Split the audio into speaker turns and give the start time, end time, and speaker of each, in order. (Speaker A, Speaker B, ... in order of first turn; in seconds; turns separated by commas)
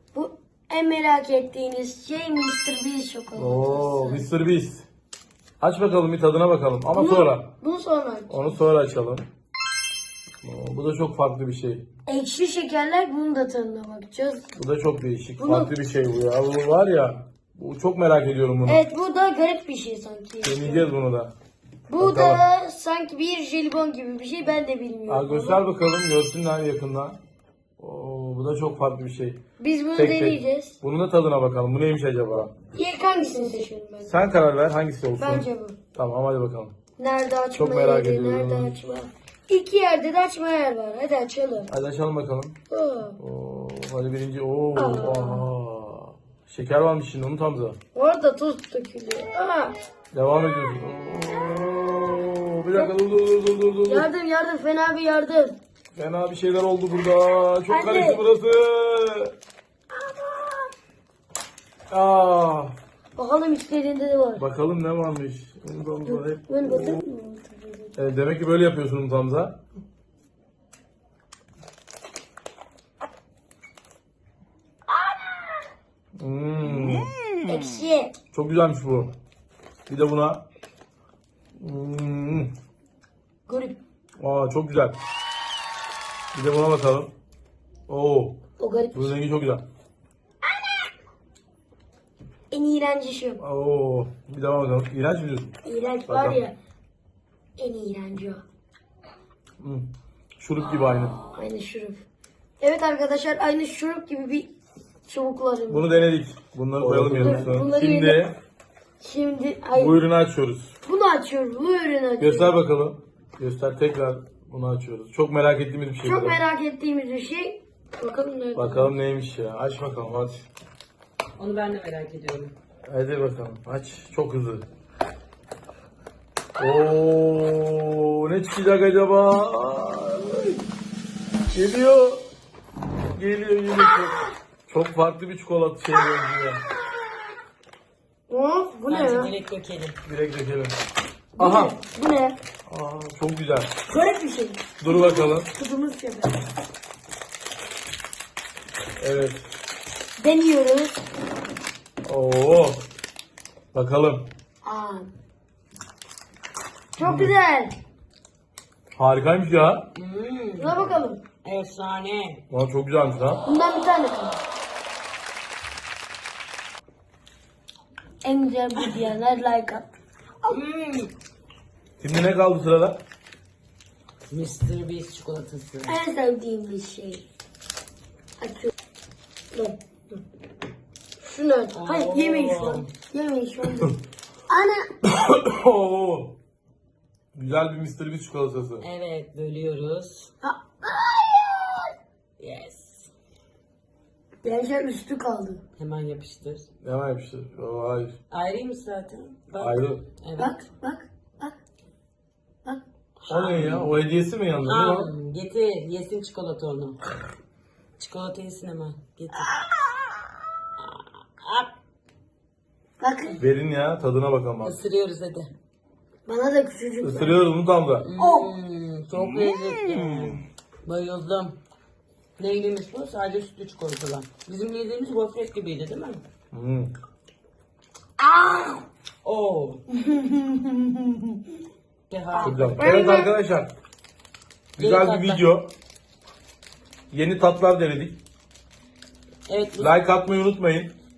Speaker A: 0.1-4.3, Speaker B: 3.3-4.9, Speaker B: 5.6-7.5, Speaker A: 6.9-8.5, Speaker B: 8.3-9.2, Speaker B: 10.4-11.9, Speaker A: 12.1-14.5, Speaker B: 14.5-18.8, Speaker A: 15.4-15.7, Speaker A: 18.6-20.9, Speaker B: 20.4-21.3, Speaker A: 21.9-25.6, Speaker B: 22.0-22.4, Speaker B: 25.1-27.2, Speaker B: 27.8-29.4, Speaker A: 29.6-30.8, Speaker B: 29.9-32.5, Speaker A: 32.7-34.2, Speaker B: 34.0-36.7, Speaker A: 35.2-35.8, Speaker A: 37.0-41.7, Speaker B: 37.5-38.7, Speaker B: 41.7-42.6, Speaker A: 42.7-43.2, Speaker B: 43.2-47.8, Speaker A: 44.7-45.4, Speaker A: 47.9-49.7, Speaker B: 50.1-54.1, Speaker A: 53.9-55.6, Speaker B: 55.9-59.3, Speaker A: 57.7-58.2, Speaker A: 60.0-60.7, Speaker B: 61.9-62.7, Speaker A: 63.1-64.4, Speaker B: 64.4-67.0, Speaker A: 66.0-68.0, Speaker B: 68.0-69.6, Speaker A: 75.0-75.5, Speaker B: 76.2-77.1, Speaker A: 77.3-78.1, Speaker B: 78.3-79.1, Speaker B: 79.9-80.4, Speaker B: 81.5-82.5, Speaker A: 83.5-83.8, Speaker B: 84.2-85.0, Speaker B: 86.3-87.1, Speaker B: 87.9-88.4, Speaker A: 88.6-89.2, Speaker B: 88.9-89.6, Speaker A: 90.5-90.9, Speaker A: 92.5-93.4, Speaker B: 93.4-95.5, Speaker A: 95.6-96.5, Speaker B: 96.1-96.4, Speaker A: 97.6-98.4, Speaker B: 99.6-101.2, Speaker A: 101.3-102.0, Speaker A: 102.6-104.5, Speaker A: 105.1-105.8, Speaker B: 105.7-108.3, Speaker A: 107.0-108.2, Speaker A: 109.0-110.0, Speaker B: 109.7-110.7, Speaker A: 110.8-112.5, Speaker B: 112.2-116.4, Speaker A: 116.0-118.9, Speaker B: 118.5-120.5, Speaker C: 121.4-122.5, Speaker B: 122.8-124.6, Speaker B: 126.6-130.6, Speaker B: 131.5-132.2, Speaker B: 133.1-136.6, Speaker A: 138.3-139.3, Speaker C: 138.9-140.0, Speaker B: 140.0-140.8, Speaker B: 141.4-141.8, Speaker A: 141.4-142.4, Speaker B: 142.7-143.7, Speaker A: 143.9-146.4, Speaker B: 144.8-145.5, Speaker B: 149.0-149.4, Speaker A: 150.2-150.9, Speaker B: 152.0-152.8, Speaker B: 153.7-154.3, Speaker A: 154.6-155.1, Speaker A: 156.9-157.7, Speaker B: 157.0-157.3, Speaker B: 158.9-159.9, Speaker C: 159.9-162.4, Speaker A: 160.6-161.2, Speaker B: 162.5-163.4, Speaker A: 163.4-164.4, Speaker A: 168.2-169.9, Speaker C: 170.4-171.1, Speaker B: 172.0-173.0, Speaker C: 174.3-175.9, Speaker A: 175.8-177.2, Speaker A: 178.4-178.7, Speaker A: 179.5-180.2, Speaker A: 181.2-184.0, Speaker C: 181.7-182.9, Speaker A: 184.5-184.9, Speaker B: 185.0-186.4, Speaker B: 187.3-188.8, Speaker C: 188.8-190.3, Speaker A: 190.4-191.9, Speaker C: 192.4-193.1, Speaker A: 194.4-195.6, Speaker C: 195.8-196.7, Speaker B: 196.8-198.2, Speaker C: 198.3-200.6, Speaker B: 199.6-200.1, Speaker A: 200.4-201.5, Speaker C: 203.3-203.9, Speaker B: 203.3-205.1, Speaker C: 204.6-207.1, Speaker C: 208.0-209.5, Speaker C: 210.8-211.7, Speaker A: 213.0-213.4, Speaker B: 213.4-214.8, Speaker C: 214.6-215.5, Speaker A: 216.2-217.4, Speaker B: 217.0-218.1, Speaker C: 218.0-221.6, Speaker A: 218.2-218.5, Speaker C: 222.4-226.2, Speaker B: 226.5-226.9, Speaker C: 228.2-229.8, Speaker C: 232.1-233.0, Speaker A: 232.3-233.3, Speaker B: 232.4-233.7, Speaker C: 234.8-235.4, Speaker B: 234.8-235.7, Speaker B: 237.1-238.2, Speaker C: 239.5-239.9, Speaker B: 239.8-240.9